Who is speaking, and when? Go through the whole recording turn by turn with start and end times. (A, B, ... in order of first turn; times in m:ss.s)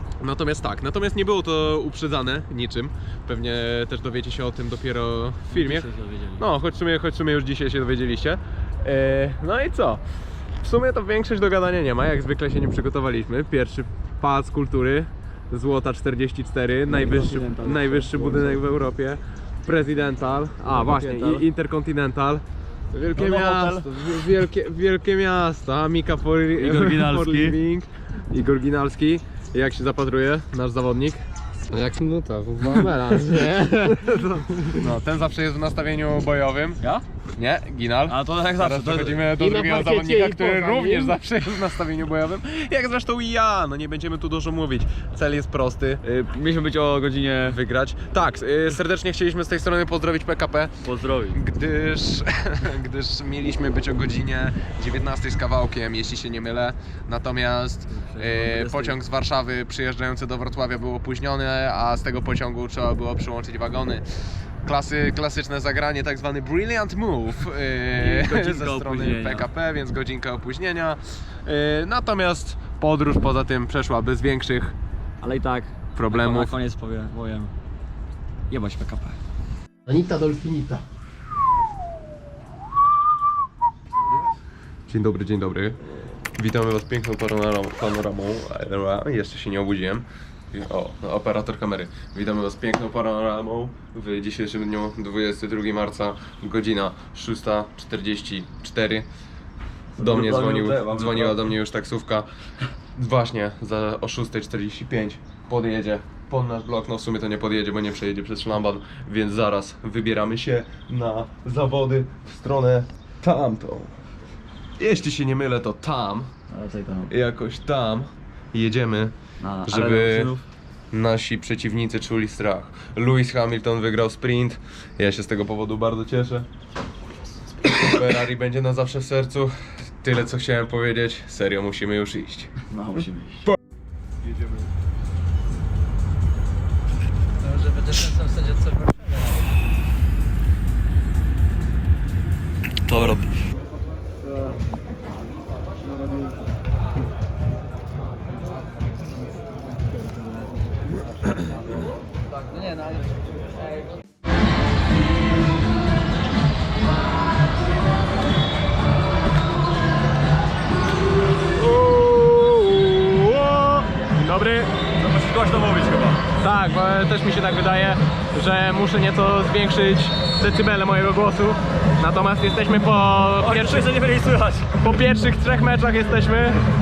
0:00.2-0:05.9 A
0:05.5-0:06.5 B
0:06.4-0:10.0 A
0:10.6-0:31.2 A
0:16.9-0:18.6 B
0:20.7-0:21.5 B
0:23.2-0:24.1 B
0:26.6-0:27.6 B
0:31.7-0:34.6 C
0:32.6-0:36.8 A
0:37.4-0:46.0 A
0:38.1-0:40.1 B
0:40.4-0:41.0 C
0:46.0-0:47.6 B
0:47.4-0:50.7 A
0:50.8-0:51.4 B
0:51.3-1:04.1 A
0:57.9-0:59.0 B
1:04.6-1:14.7 A
1:08.0-1:09.5 B
1:15.2-1:17.5 B
1:16.0-1:16.6 A
1:18.5-1:19.2 B
1:19.9-1:20.8 C
1:24.9-1:25.8 A
1:26.3-1:39.1 A
1:40.0-1:41.5 B
1:40.0-1:42.3 A
1:42.9-1:54.0 A
1:54.8-1:56.3 A
1:56.5-1:57.1 B
1:57.1-2:00.3 A
1:59.4-2:00.4 B
2:00.9-2:06.5 A
2:07.6-2:12.5 A
2:12.7-2:13.5 B
2:22.8-2:23.3 B
2:41.6-2:44.7 A
2:45.0-2:46.2 B
2:46.4-2:53.9 A
2:53.4-2:54.7 B
2:54.8-2:56.6 A